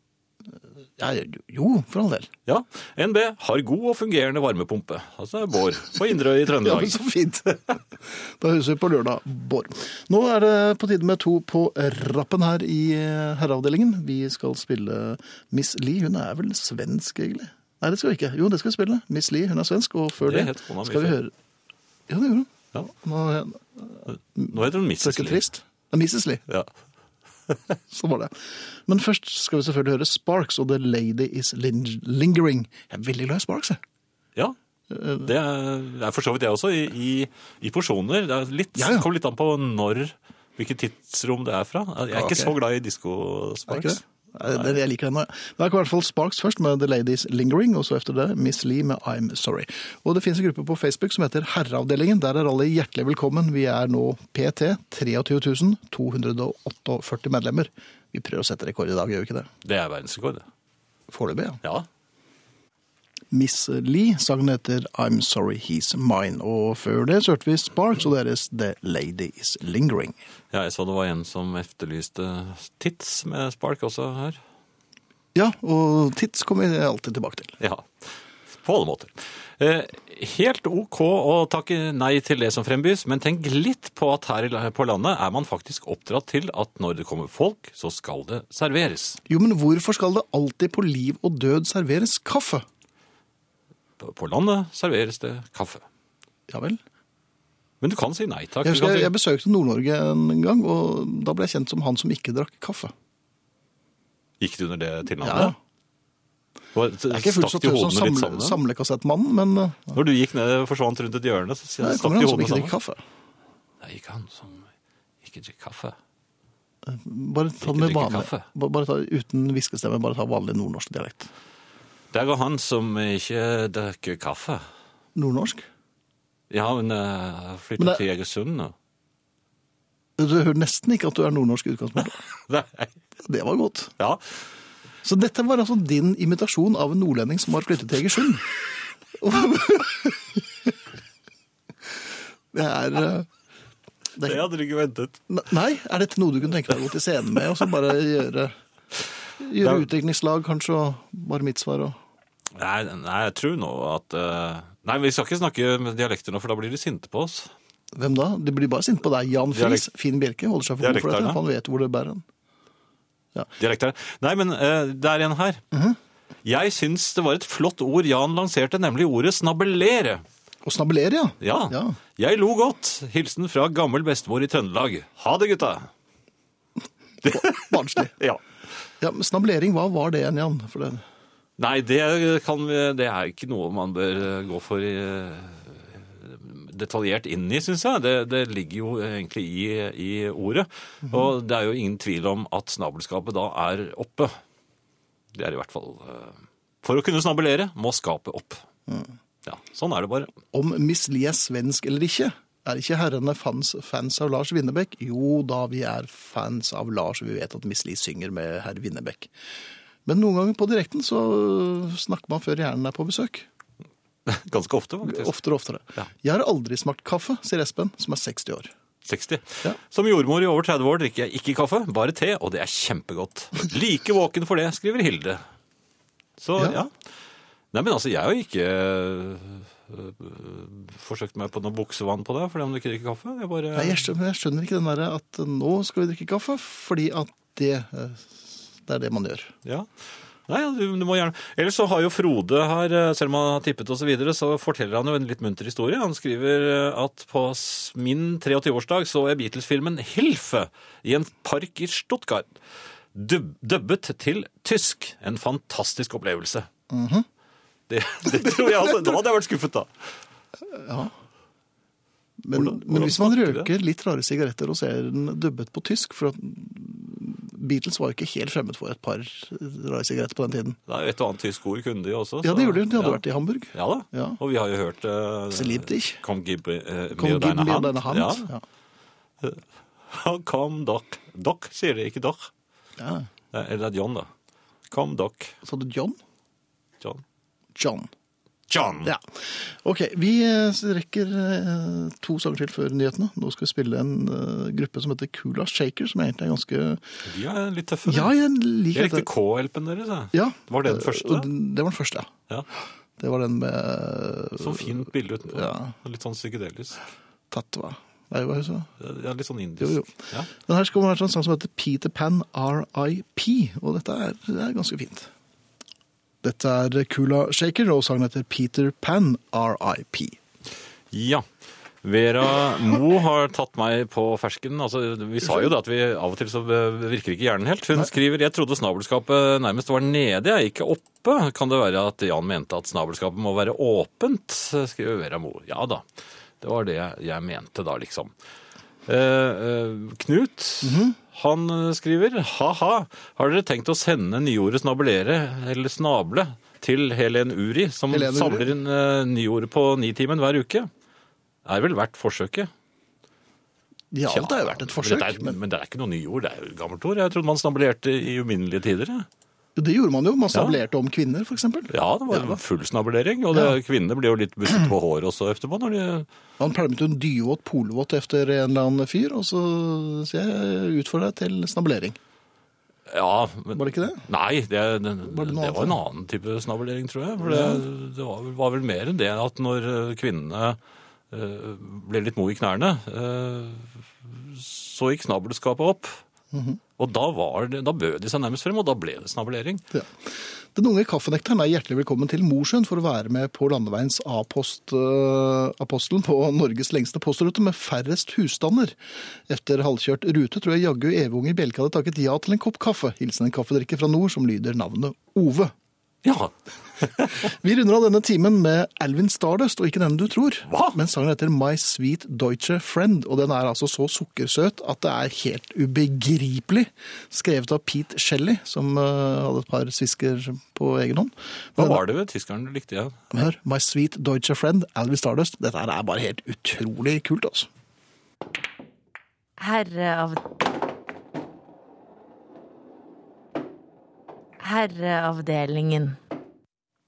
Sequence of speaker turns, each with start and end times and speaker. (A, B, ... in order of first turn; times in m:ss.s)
0:00.5-0:02.3 A
0:02.4-0:07.0 B
0:06.6-0:21.3 A
0:20.2-0:21.2 B
0:22.1-0:26.4 A
0:24.5-0:25.4 B
0:27.9-0:33.8 A
0:34.9-0:35.3 A
0:35.2-0:44.8 B
0:38.8-0:39.0 A
0:42.1-0:42.5 A
0:43.7-0:59.5 A
0:59.6-1:00.4 B
1:01.1-1:01.6 A
1:03.3-1:10.2 A
1:10.5-1:14.4 B
1:15.3-1:17.5 A
1:17.6-1:17.9 B
1:18.5-1:29.2 B
1:29.3-1:32.6 A
1:34.0-1:35.8 B
1:36.5-1:36.8 A
1:37.8-1:39.1 B
1:38.6-1:42.9 A
1:44.4-1:45.5 B
1:45.2-1:45.6 A
1:46.7-1:48.6 B
1:47.1-1:50.0 A
1:49.9-1:52.7 B
1:51.8-1:53.0 A
1:53.8-1:54.7 B
1:55.2-1:56.0 B
1:56.8-2:01.3 A
1:57.6-1:58.4 B
2:02.1-2:04.6 B
2:05.1-2:05.7 A
2:06.5-2:08.7 B
2:10.2-2:12.2 A
2:12.5-2:12.9 B
2:13.2-2:13.9 A
2:15.0-2:18.5 A
2:19.2-2:20.7 A
2:22.5-2:23.3 A
2:24.2-2:24.4 A
2:24.2-2:25.2 B
2:25.3-2:28.5 A
2:29.4-2:31.9 A
2:32.6-2:37.5 B
2:37.9-2:42.2 A
2:39.5-2:39.8 B
2:40.8-2:41.4 B
2:43.6-2:45.6 B
2:45.7-2:46.0 A
2:46.4-2:50.2 B
2:50.6-2:52.0 A
2:51.4-2:55.9 B
2:57.2-2:58.4 B
2:57.2-2:58.1 A
2:59.0-3:01.0 A
3:01.6-3:14.4 B
3:15.3-3:18.6 B
3:19.4-3:20.3 B
3:20.5-3:29.3 A
3:30.0-3:33.5 A
3:34.2-3:35.3 B
3:35.0-3:38.7 A
3:39.0-3:45.4 B
3:46.4-3:46.9 B
3:47.7-3:54.0 B
3:53.7-3:59.5 A
4:00.5-4:12.5 B
4:13.1-4:16.7 B
4:16.9-4:17.3 A
4:17.9-4:19.9 B
4:20.7-4:21.1 A
4:22.4-4:30.8 A
4:22.5-4:23.7 B
4:30.9-4:33.2 B
4:32.4-4:34.4 A
4:33.7-4:38.5 B
4:35.5-4:36.2 A
4:37.1-4:38.6 A
4:39.4-4:42.5 B
4:43.0-4:43.3 A
4:43.5-4:44.3 B
4:44.9-4:45.5 B
4:45.6-4:46.2 A
4:47.7-4:48.1 A
4:48.7-4:49.1 B
4:49.0-4:57.0 A
4:57.2-4:58.3 B
4:58.0-4:59.3 A
4:58.9-5:01.5 B
5:00.3-5:02.3 A
5:03.2-5:04.9 A
5:04.6-5:07.0 B
5:05.5-5:05.9 A
5:07.5-5:08.9 A
5:09.0-5:10.5 B
5:09.8-5:15.3 A
5:16.4-5:20.4 A
5:21.1-5:21.4 B
5:22.0-5:36.0 B
5:36.6-5:38.3 B
5:39.1-5:50.9 B
5:40.8-5:41.2 A
5:48.1-5:48.7 A
5:51.6-5:52.7 B
5:54.1-5:55.6 A
5:54.3-5:59.3 B
5:59.8-6:02.6 A
6:01.9-6:06.3 B
6:06.6-6:12.2 A
6:13.1-6:20.8 B
6:13.7-6:14.2 A
6:15.3-6:16.0 A
6:17.4-6:17.8 A
6:21.3-6:26.2 B
6:26.5-6:26.8 A
6:27.0-6:29.8 B
6:29.9-6:45.7 A
6:46.2-6:47.4 B
6:47.4-7:02.0 A
6:50.7-6:51.0 B
7:01.8-7:03.2 B
7:03.3-7:07.7 A
7:09.6-7:10.4 C
7:14.6-7:16.2 C